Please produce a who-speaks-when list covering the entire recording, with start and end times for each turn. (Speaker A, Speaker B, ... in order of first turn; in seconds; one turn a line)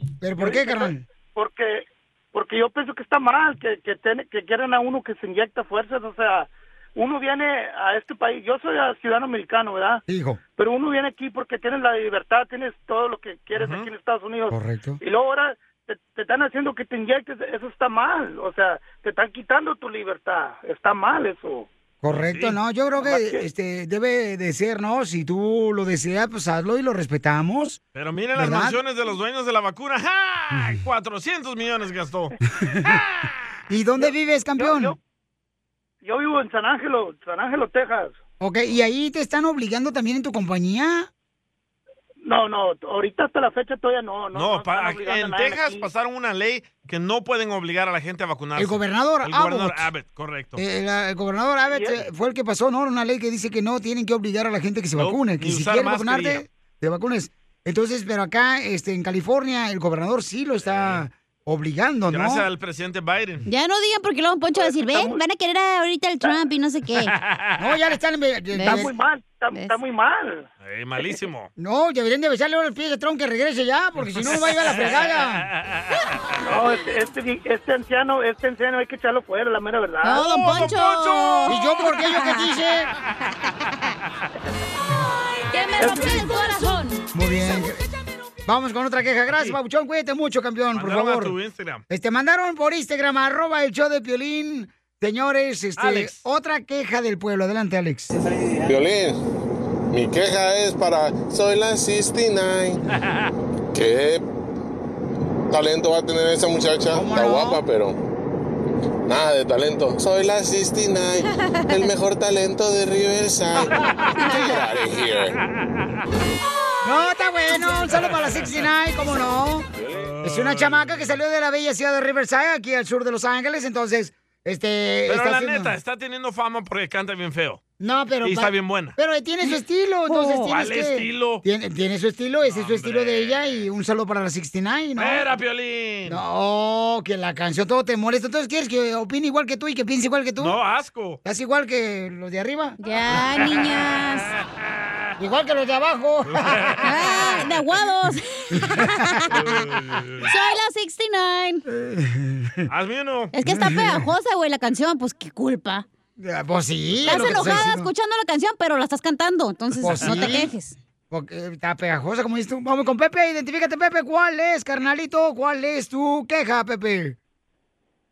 Speaker A: 0.2-1.0
Speaker B: 0.4-10.0
Speaker A: 10.1-10.4
Speaker B: 10.6-21.7
Speaker C: 13.5-13.9
Speaker A: 14.5-15.0
Speaker A: 22.0-27.8
Speaker C: 22.2-22.6
Speaker B: 23.0-23.4
Speaker C: 27.9-32.3
Speaker A: 28.4-28.8
Speaker A: 32.6-33.0
Speaker A: 33.7-34.9
Speaker B: 34.0-35.0
Speaker B: 36.0-38.2
Speaker A: 38.4-41.1
Speaker B: 42.2-45.9
Speaker C: 44.3-50.6
Speaker A: 48.6-49.9
Speaker A: 50.6-62.4
Speaker B: 51.6-52.0
Speaker C: 55.0-56.4
Speaker C: 60.6-61.0
Speaker C: 62.1-63.4
Speaker D: 63.5-67.1
Speaker B: 64.5-65.2
Speaker C: 67.2-67.6
Speaker A: 67.6-68.9
Speaker D: 68.5-68.9
Speaker B: 68.6-70.5
Speaker C: 70.6-71.5
Speaker A: 71.6-75.5
Speaker C: 74.2-75.9
Speaker B: 76.4-80.3
Speaker D: 80.0-82.5
Speaker C: 80.2-81.5
Speaker A: 81.5-82.9
Speaker D: 85.5-87.0
Speaker B: 85.8-86.2
Speaker A: 87.1-87.8
Speaker A: 88.5-91.3
Speaker C: 89.3-89.6
Speaker C: 90.7-91.8
Speaker A: 91.9-98.1
Speaker C: 95.8-96.2
Speaker E: 98.6-99.2
Speaker E: 99.9-102.8
Speaker E: 103.7-104.2
Speaker E: 105.5-108.0
Speaker A: 106.9-107.6
Speaker E: 109.1-115.4
Speaker A: 116.8-119.7
Speaker C: 119.9-121.1
Speaker A: 120.2-125.7
Speaker C: 125.0-127.6
Speaker A: 127.8-135.2
Speaker C: 128.2-128.9
Speaker D: 130.1-130.5
Speaker C: 130.4-131.4
Speaker C: 132.4-133.7
Speaker C: 135.0-136.2
Speaker A: 136.1-140.6
Speaker C: 140.4-141.2
Speaker A: 141.2-142.8
Speaker D: 142.8-144.3
Speaker A: 145.2-146.8
Speaker C: 146.3-146.8
Speaker D: 146.8-149.3
Speaker A: 148.5-149.3
Speaker C: 149.3-150.3
Speaker D: 150.2-151.6
Speaker A: 151.7-152.7
Speaker C: 152.7-153.3
Speaker D: 153.3-155.8
Speaker A: 153.4-154.1
Speaker A: 156.2-157.9
Speaker C: 157.0-157.6
Speaker D: 157.0-160.8
Speaker A: 159.8-160.5
Speaker A: 161.1-167.2